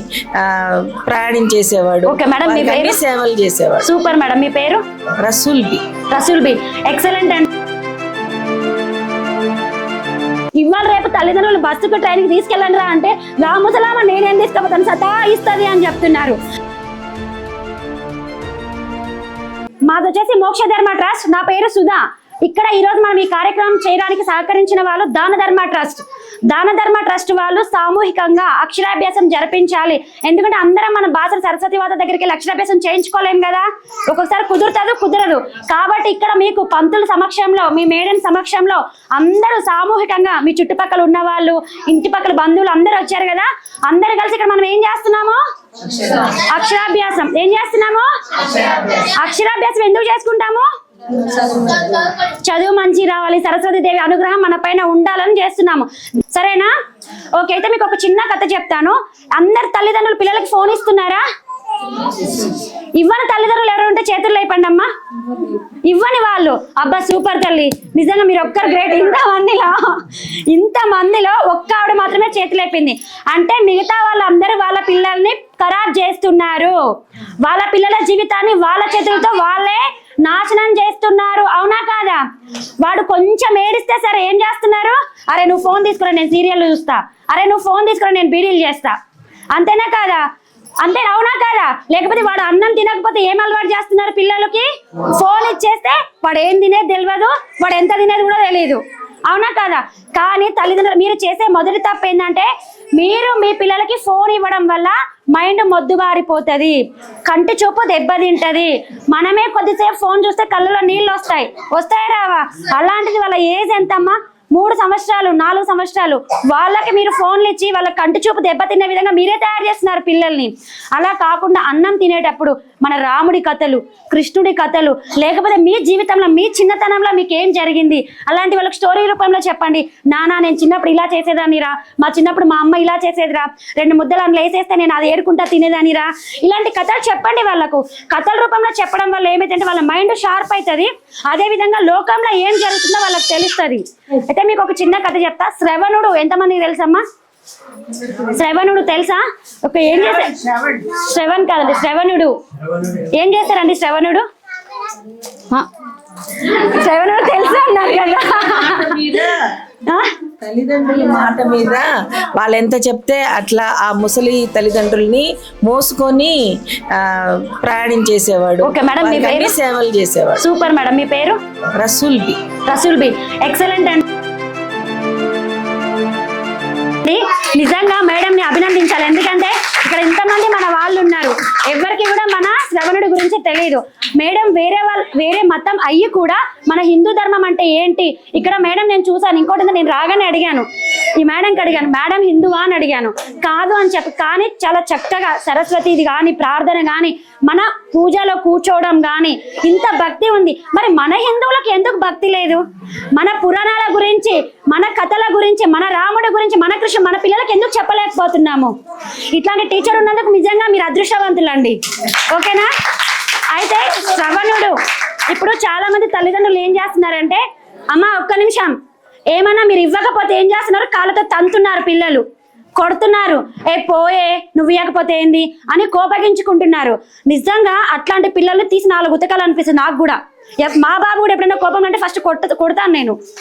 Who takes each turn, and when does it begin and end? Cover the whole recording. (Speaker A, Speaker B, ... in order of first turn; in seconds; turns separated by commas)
Speaker A: 0.4-3.9, Speaker B: 2.1-3.0, Speaker B: 3.8-4.8, Speaker A: 5.2-5.9, Speaker B: 6.1-7.5, Speaker B: 10.6-16.4, Speaker B: 19.9-50.7, Speaker B: 51.6-56.7, Speaker B: 57.4-61.2, Speaker B: 61.8-76.8, Speaker B: 77.4-82.2, Speaker B: 82.8-89.0, Speaker B: 89.5-90.2, Speaker B: 90.8-147.0, Speaker B: 148.1-154.3, Speaker B: 156.3-159.3, Speaker A: 158.8-159.3, Speaker B: 159.9-160.2, Speaker A: 160.4-170.4, Speaker B: 168.6-169.6, Speaker B: 170.4-171.4, Speaker A: 171.8-172.4, Speaker B: 172.6-174.1, Speaker B: 177.0-202.6, Speaker B: 203.2-208.8, Speaker B: 209.3-218.8, Speaker B: 219.3-222.2, Speaker B: 222.8-233.2